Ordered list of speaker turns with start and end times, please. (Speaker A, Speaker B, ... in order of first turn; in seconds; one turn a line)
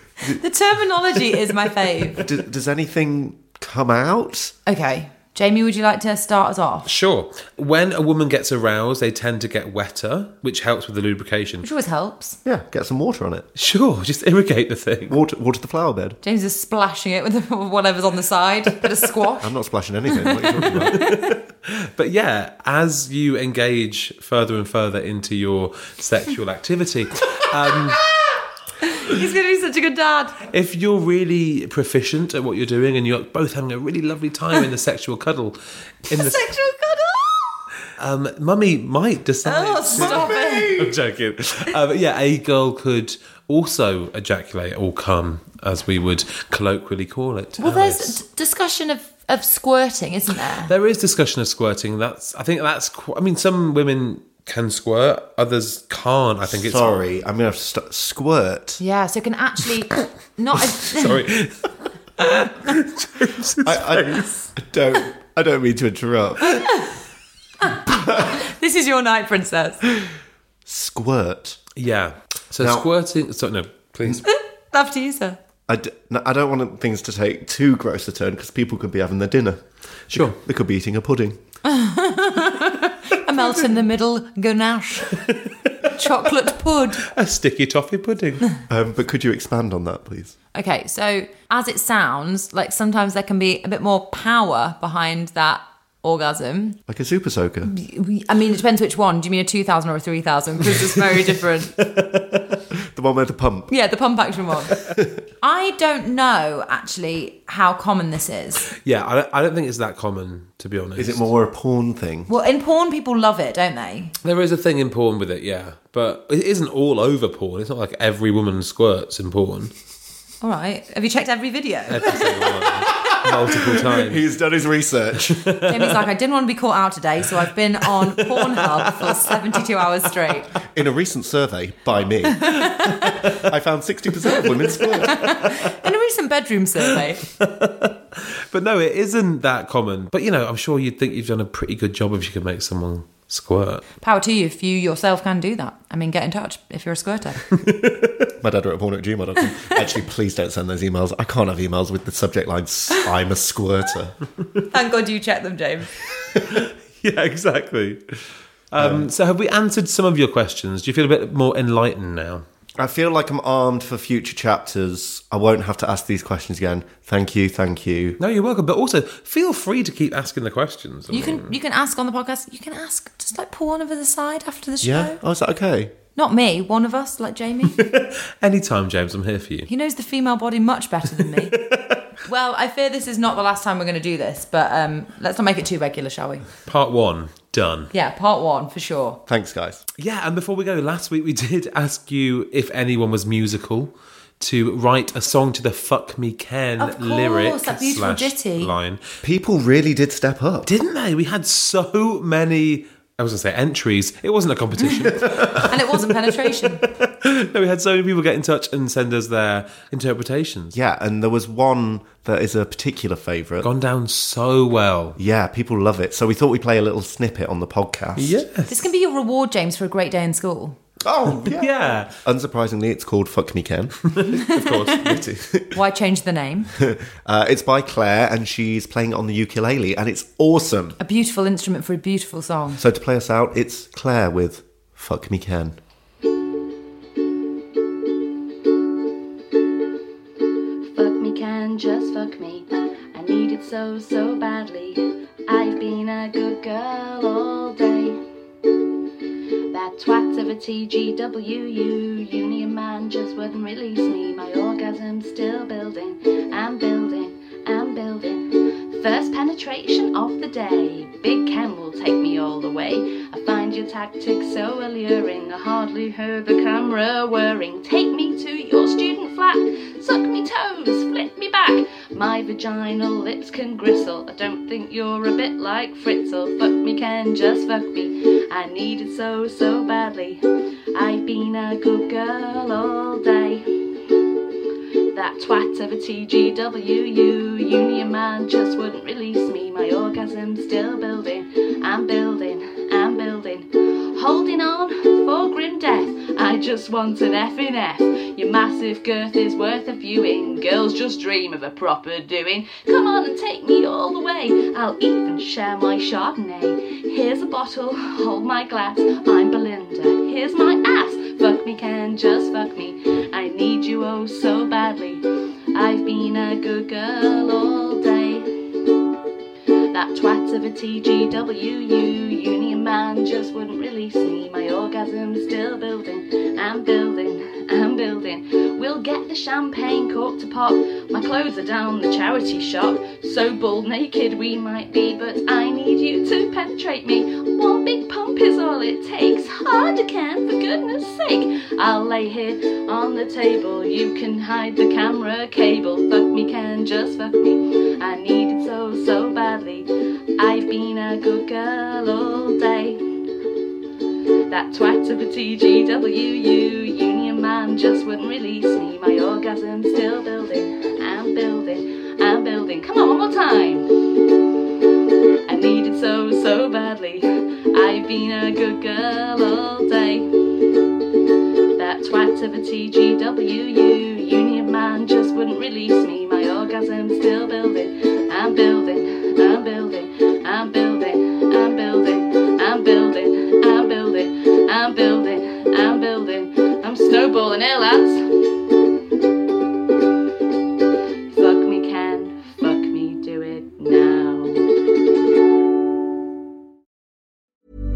Speaker A: 0.3-2.2
Speaker B: 2.2-4.5
Speaker A: 4.7-6.9
Speaker C: 6.8-11.7
Speaker A: 11.6-12.4
Speaker B: 12.4-13.5
Speaker C: 13.6-15.2
Speaker B: 15.1-16.2
Speaker A: 16.2-21.2
Speaker B: 19.4-21.1
Speaker C: 20.9-28.0
Speaker A: 28.8-30.4
Speaker C: 30.5-36.5
Speaker A: 36.1-37.6
Speaker C: 38.0-48.2
Speaker A: 39.4-40.7
Speaker B: 39.9-41.0
Speaker A: 47.6-50.7
Speaker C: 50.6-57.0
Speaker B: 56.5-58.8
Speaker A: 58.8-61.2
Speaker C: 60.7-64.3
Speaker B: 63.6-66.7
Speaker A: 67.6-69.8
Speaker B: 70.7-71.6
Speaker C: 71.8-74.2
Speaker B: 72.6-72.9
Speaker A: 74.2-75.4
Speaker B: 75.7-79.6
Speaker C: 80.1-80.4
Speaker B: 80.1-81.4
Speaker A: 81.6-85.2
Speaker C: 85.2-85.9
Speaker A: 85.8-87.0
Speaker C: 87.1-88.5
Speaker B: 88.7-90.3
Speaker A: 90.5-96.8
Speaker B: 96.9-97.7
Speaker A: 97.6-101.7
Speaker C: 101.2-102.3
Speaker B: 102.9-103.7
Speaker A: 103.7-104.7
Speaker A: 105.4-108.6
Speaker C: 108.8-111.3
Speaker B: 111.0-112.3
Speaker A: 112.3-114.1
Speaker C: 114.2-119.7
Speaker A: 120.4-122.5
Speaker C: 121.9-124.2
Speaker B: 123.5-125.4
Speaker C: 125.3-126.0
Speaker A: 125.6-130.5
Speaker C: 128.7-129.3
Speaker B: 130.7-135.4
Speaker A: 132.3-133.4
Speaker C: 134.8-135.4
Speaker A: 135.0-137.2
Speaker C: 136.9-143.8
Speaker A: 144.0-147.4
Speaker C: 147.6-148.3
Speaker B: 148.4-154.2
Speaker A: 154.7-155.9
Speaker C: 156.3-158.0
Speaker C: 158.7-162.4
Speaker B: 158.8-159.1
Speaker B: 162.8-168.2
Speaker C: 168.2-171.5
Speaker A: 171.1-175.2
Speaker B: 174.8-175.9
Speaker A: 176.2-177.8
Speaker C: 177.8-179.7
Speaker A: 179.7-181.6
Speaker C: 181.5-182.0
Speaker A: 182.2-186.5
Speaker C: 186.7-187.9
Speaker A: 187.9-189.2
Speaker B: 189.3-189.8
Speaker C: 190.0-199.0
Speaker A: 196.8-198.7
Speaker B: 199.2-200.7
Speaker C: 200.6-210.8
Speaker A: 205.7-206.8
Speaker B: 210.7-213.7
Speaker C: 213.6-215.2
Speaker B: 215.2-218.4
Speaker C: 218.2-218.9
Speaker A: 218.7-220.8
Speaker B: 221.0-224.0
Speaker C: 221.4-222.1
Speaker C: 224.0-225.4
Speaker A: 224.6-225.0
Speaker B: 225.1-225.7
Speaker A: 225.7-226.7
Speaker B: 226.8-231.0
Speaker A: 231.0-232.8
Speaker B: 232.8-235.8
Speaker D: 240.9-248.2
Speaker D: 249.7-280.4
Speaker D: 280.9-284.4
Speaker D: 285.1-318.9
Speaker D: 319.9-353.0
Speaker D: 354.5-364.8
Speaker D: 365.4-370.9
Speaker D: 371.8-388.8
Speaker D: 391.3-394.7